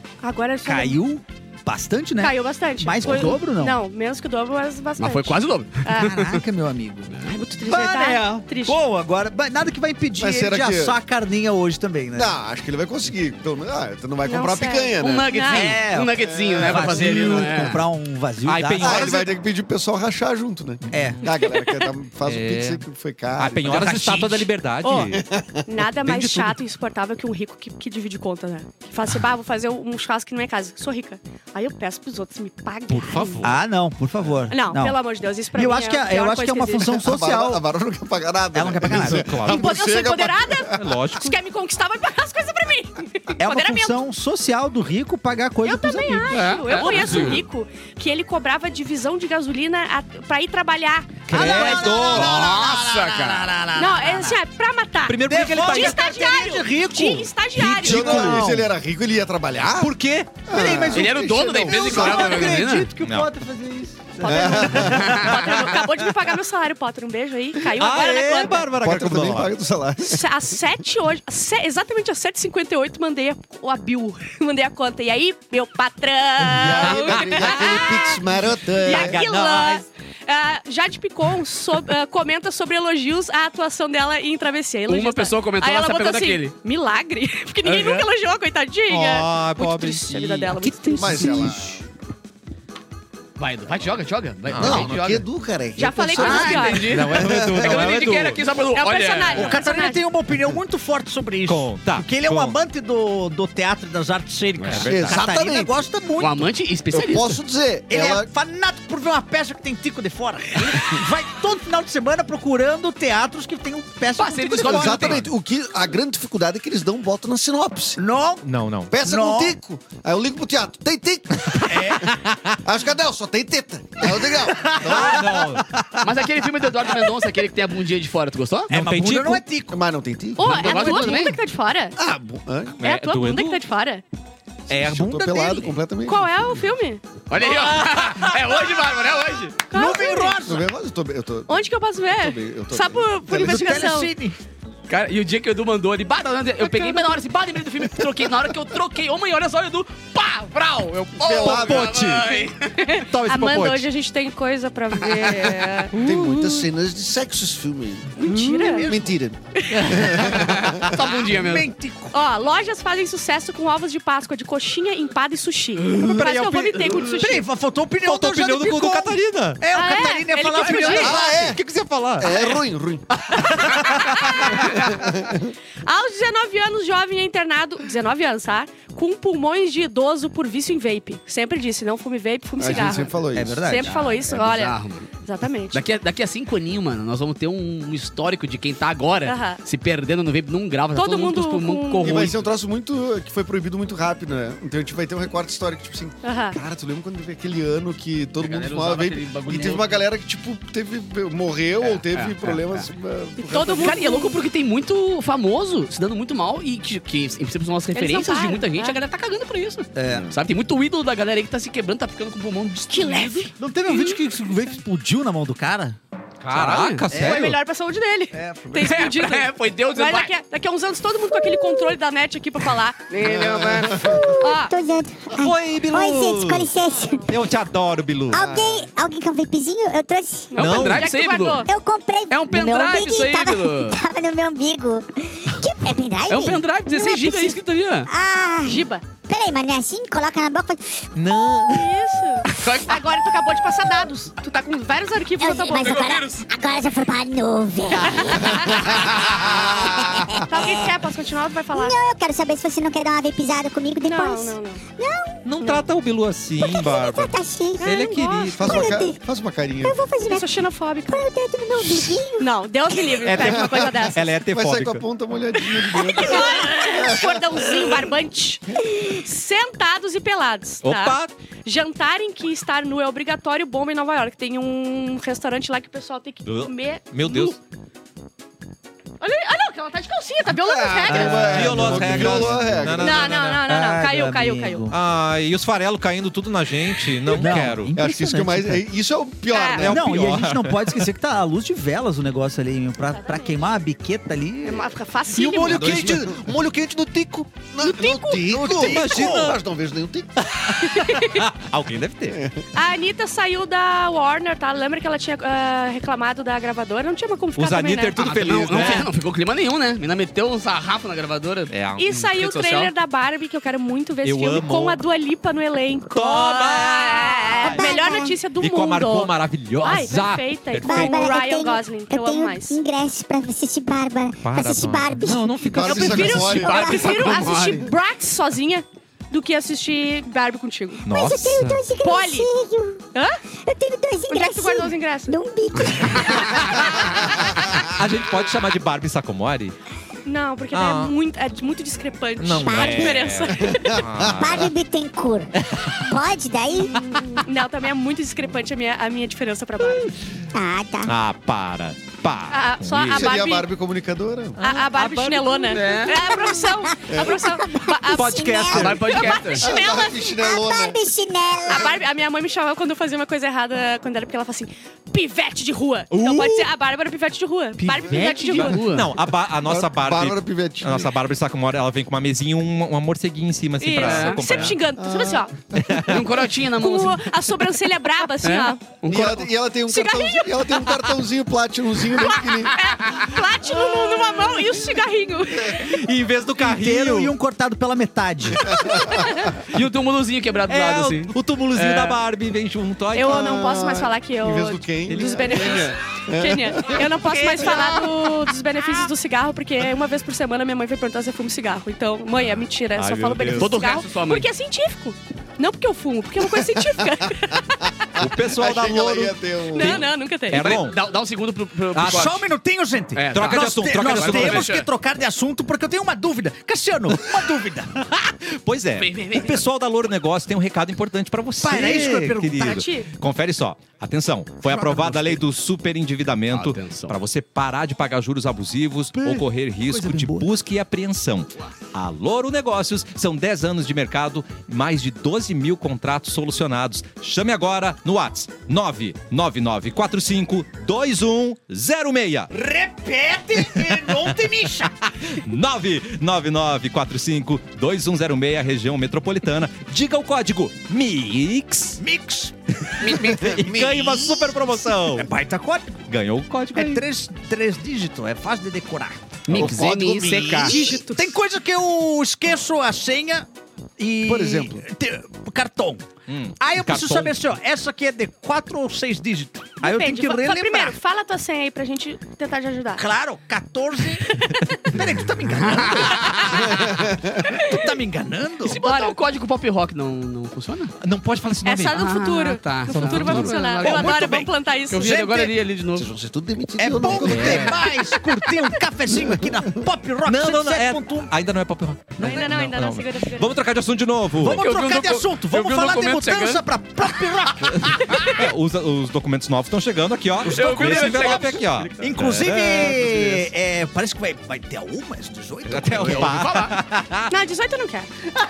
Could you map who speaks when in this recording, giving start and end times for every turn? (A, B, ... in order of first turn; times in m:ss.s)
0:00.2-0:01.0 A
0:00.6-0:03.8 B
0:02.2-0:06.3 A
0:05.0-0:06.4 C
0:06.0-0:12.3 B
0:07.1-0:07.4 C
0:07.3-0:08.8 A
0:10.2-0:11.0 D
0:12.1-0:15.3 D
0:14.2-0:15.7 A
0:15.0-0:17.8 C
0:15.4-0:19.2 B
0:16.2-0:17.7 D
0:18.4-0:19.3 E
0:18.8-0:24.0 D
0:20.9-0:21.3 E
0:20.9-0:21.2 B
0:22.2-0:22.8 E
0:23.4-0:25.2 E
0:23.6-0:24.5 B
0:24.8-0:25.1 A
0:25.1-0:25.6 D
0:25.6-0:33.4 A
0:26.0-0:26.6 E
0:32.9-0:33.6 E
0:33.4-0:35.0 B
0:34.5-0:37.0 A
0:35.5-0:37.6 B
0:36.9-0:40.9 D
0:38.5-0:39.3 B
0:38.9-0:39.8 E
0:39.4-0:44.0 A
0:40.7-0:41.3 E
0:43.4-0:47.4 B
0:45.6-0:52.2 A
0:46.3-0:47.4 C
0:51.3-0:52.3 E
0:51.3-0:54.4 B
0:52.0-0:53.5 C
0:53.8-0:58.4 A
0:55.0-0:56.0 E
0:55.2-0:58.7 B
0:57.6-0:58.5 E
0:57.8-1:00.0 D
0:59.8-1:00.4 E
1:00.5-1:02.6 D
1:00.5-1:05.8 B
1:00.9-1:02.9 C
1:01.7-1:02.3 A
1:03.0-1:03.3 E
1:04.2-1:08.7 A
1:04.2-1:05.4 D
1:07.7-1:09.5 E
1:08.8-1:10.3 D
1:10.0-1:18.2 A
1:16.4-1:19.2 D
1:16.6-1:17.9 E
1:18.8-1:31.5 A
1:18.9-1:19.8 E
1:24.9-1:26.5 C
1:27.6-1:28.1 C
1:28.9-1:31.6 E
1:31.0-1:31.6 D
1:31.1-1:31.7 B
1:33.4-1:35.3 C
1:34.5-1:35.1 E
1:34.6-1:36.7 F
1:35.8-1:37.0 A
1:36.1-1:39.6 C
1:36.8-1:38.4 E
1:37.1-1:37.9 D
1:38.7-1:40.0 A
1:39.3-1:46.5 B
1:41.5-1:42.6 E
1:44.6-1:45.2 E
1:44.9-1:45.6 D
1:44.9-1:45.7 F
1:46.2-1:47.4 C
1:47.0-1:48.2 F
1:47.9-1:55.3 B
1:54.2-1:55.2 C
1:54.6-1:58.0 F
1:58.0-1:59.6 B
1:58.4-1:58.9 E
1:58.9-2:01.5 F
2:01.7-2:02.1 B
2:01.9-2:02.6 E
2:02.6-2:05.0 F
2:04.2-2:06.3 B
2:04.7-2:05.7 E
2:04.8-2:05.2 D
2:06.0-2:08.7 C
2:08.7-2:09.4 E
2:08.7-2:09.8 B
2:09.7-2:11.3 D
2:10.4-2:12.0 A
2:10.4-2:11.3 C
2:10.5-2:11.3 B
2:12.0-2:12.8 D
2:12.8-2:13.6 E
2:12.8-2:14.0 A
2:14.7-2:16.6 D
2:14.7-2:15.1 E
2:14.7-2:15.7 B
2:16.0-2:17.0 A
2:17.3-2:19.6 C
2:19.7-2:20.4 A
2:19.7-2:20.7 B
2:20.4-2:23.8 D
2:21.5-2:24.1 A
2:23.3-2:24.4 B
2:24.9-2:32.8 C
2:26.6-2:27.2 A
2:31.2-2:32.0 D
2:31.4-2:32.4 E
2:32.8-2:36.0 A
2:33.0-2:33.9 E
2:35.1-2:35.8 C
2:35.9-2:38.2 F
2:36.0-2:36.6 D
2:38.2-2:38.9 A
2:38.2-2:39.1 B
2:38.7-2:39.4 F
2:39.6-2:40.2 A
2:39.9-2:40.7 D
2:40.1-2:41.7 C
2:41.2-2:42.2 B
2:42.1-2:47.4 A
2:45.9-2:47.0 E
2:46.9-2:51.6 B
2:48.0-2:49.6 E
2:49.7-2:51.2 A
2:50.9-2:52.4 E
2:51.0-2:51.6 F
2:52.2-2:53.0 F
2:52.2-2:52.8 D
2:53.3-2:54.3 E
2:53.4-2:54.6 A
2:54.6-2:55.5 D
2:55.8-3:05.8 A
3:02.6-3:03.9 D
3:03.3-3:04.4 B
3:04.3-3:05.1 C
3:05.7-3:12.5 C
3:09.2-3:09.6 A
3:11.0-3:12.3 A
3:12.0-3:24.1 D
3:16.2-3:16.6 A
3:18.4-3:20.0 C
3:21.8-3:22.9 C
3:23.4-3:24.4 A
3:23.6-3:33.5 C
3:27.9-3:29.0 A
3:30.0-3:30.3 B
3:30.1-3:30.3 D
3:32.9-3:33.5 A
3:33.6-3:36.0 B
3:36.4-3:37.6 E
3:36.5-3:37.1 C
3:37.1-3:37.5 B
3:37.1-3:43.0 A
3:38.3-3:39.1 B
3:38.8-3:40.3 C
3:41.3-3:42.0 G
3:43.1-3:44.1 C
3:43.2-3:44.3 D
3:44.0-3:47.3 G
3:44.4-3:44.7 A
3:45.3-3:46.7 E
3:47.3-3:48.5 E
3:48.3-3:50.6 G
3:48.3-3:48.8 D
3:50.5-3:51.7 A
3:50.6-3:51.1 E
3:50.6-3:51.7 C
3:51.6-4:01.8 G
3:52.3-3:54.0 C
3:56.3-3:58.1 C
3:58.6-3:59.0 A
4:01.2-4:01.9 E
4:01.7-4:06.1 A
4:02.6-4:03.0 C
4:05.4-4:10.9 G
4:05.7-4:06.4 C
4:08.0-4:08.8 A
4:10.4-4:12.0 A
4:11.7-4:15.7 G
4:14.0-4:14.8 A
4:15.4-4:18.7 E
4:16.6-4:18.1 G
4:17.8-4:18.6 A
4:18.6-4:20.0 D
4:18.6-4:19.2 G
4:19.8-4:23.0 G
4:20.2-4:21.2 A
4:22.4-4:24.2 A
4:23.2-4:25.0 E
4:23.4-4:27.7 D
4:25.6-4:37.6 A
4:28.8-4:29.2 G
4:30.8-4:31.3 E
4:36.4-4:37.6 E
4:39.2-4:41.6 A
4:40.5-4:43.3 D
4:41.1-4:43.6 E
4:41.5-4:42.8 B
4:43.0-4:44.9 A
4:43.6-4:45.0 B
4:44.9-4:47.9 E
4:47.3-4:48.9 B
4:47.9-4:50.2 D
4:49.5-4:49.9 A
4:49.8-4:51.0 E
4:49.8-4:54.9 B
4:53.1-4:53.6 A
4:54.6-4:56.1 A
4:55.3-4:57.7 E
4:55.6-4:56.3 B
4:57.7-5:00.3 F
4:57.8-4:58.5 A
4:58.5-4:59.2 B
4:58.7-4:59.6 E
5:00.5-5:02.4 E
5:00.7-5:01.4 A
5:02.3-5:02.6 D
5:02.7-5:08.3 A
5:07.6-5:09.1 E
5:08.2-5:12.9 C
5:11.7-5:12.0 E
5:12.0-5:22.8 A
5:14.2-5:15.0 E
5:16.1-5:21.3 E
5:17.6-5:18.4 G
5:20.8-5:25.8 G
5:24.4-5:26.8 E
5:25.7-5:27.9 D
5:25.8-5:31.1 A
5:26.6-5:27.6 G
5:26.8-5:27.9 C
5:31.0-5:31.8 E
5:31.1-5:33.0 G
5:32.0-5:32.5 A
5:33.1-5:33.4 A
5:33.6-5:37.4 G
5:34.3-5:35.4 A
5:36.7-5:37.0 A
5:37.6-5:39.7 E
5:40.2-5:44.0 A
5:40.7-5:41.1 E
5:42.4-5:44.7 E
5:42.6-5:43.4 G
5:43.6-5:44.4 D
5:44.2-5:47.0 G
5:45.6-5:46.0 E
5:46.8-5:50.1 A
5:50.5-5:51.2 G
5:51.0-5:53.4 E
5:52.5-5:53.7 A
5:53.1-5:54.6 D
5:54.6-5:55.9 E
5:54.6-6:00.3 A
5:55.7-5:56.2 C
5:56.1-5:59.0 G
5:57.1-5:57.4 D
5:58.1-5:59.5 E
5:58.7-5:59.6 C
5:59.6-6:01.0 D
5:59.6-6:02.0 G
6:01.6-6:08.8 A
6:06.1-6:06.7 E
6:07.8-6:08.6 B
6:08.1-6:09.1 C
6:08.6-6:14.8 E
6:09.6-6:11.1 D
6:13.8-6:15.5 A
6:14.0-6:14.8 C
6:15.0-6:16.3 D
6:15.8-6:16.1 E
6:16.1-6:17.2 C
6:16.8-6:18.8 A
6:18.4-6:19.5 C
6:19.1-6:22.9 D
6:19.9-6:20.8 A
6:22.2-6:26.0 A
6:23.9-6:24.6 E
6:25.7-6:27.3 E
6:26.6-6:28.8 B
6:28.6-6:29.4 D
6:28.7-6:29.5 A
6:29.7-6:32.2 C
6:30.7-6:33.4 E
6:33.1-6:47.9 A
6:33.2-6:38.0 D
6:35.1-6:35.8 E
6:42.5-6:43.7 E
6:43.5-6:44.5 C
6:46.6-6:47.0 D
6:48.2-6:50.1 D
6:48.2-6:51.0 E
6:49.7-6:50.8 A
6:50.5-6:52.4 C
6:51.9-6:52.3 E
6:52.0-6:58.1 B
6:53.1-6:54.9 C
6:53.3-6:54.7 E
6:58.3-7:22.5 E
6:59.0-6:59.6 C
7:01.6-7:02.8 B
7:02.6-7:03.1 A
7:04.7-7:05.4 C
7:06.5-7:07.2 C
7:09.1-7:10.5 B
7:22.5-7:24.9 B
7:25.3-7:32.0 E
7:32.0-7:32.5 B
7:33.0-7:33.6 C
7:33.1-7:35.3 E
7:33.5-7:34.5 F
7:35.0-7:36.0 B
7:36.1-7:37.0 E
7:36.7-7:43.5 B
7:39.5-7:40.8 C
7:39.5-7:39.9 E
7:39.9-7:40.2 F
7:40.6-7:41.3 A
7:44.0-7:51.0 B
7:44.3-7:44.8 D
7:46.3-7:47.4 E
7:49.8-7:53.0 A
7:53.0-7:58.8 B
7:54.2-7:54.9 A
7:55.4-7:56.6 C
7:56.7-7:57.4 D
7:57.5-7:57.8 A
7:58.6-7:59.2 A
7:58.7-8:00.9 C
8:01.0-8:02.1 E
8:01.6-8:05.2 A
8:01.9-8:04.3 C
8:03.1-8:03.5 E
8:03.6-8:05.5 B
8:04.9-8:06.1 C
8:06.0-8:07.7 F
8:06.8-8:11.3 B
8:07.2-8:07.8 E
8:07.3-8:07.6 C
8:10.3-8:14.6 E
8:12.2-8:13.5 A
8:14.4-8:17.9 B
8:14.6-8:16.6 C
8:17.8-8:23.3 E
8:20.4-8:22.1 C
8:20.6-8:21.3 B
8:22.0-8:26.5 B
8:25.7-8:27.3 E
8:26.0-8:26.8 C
8:27.3-8:28.1 A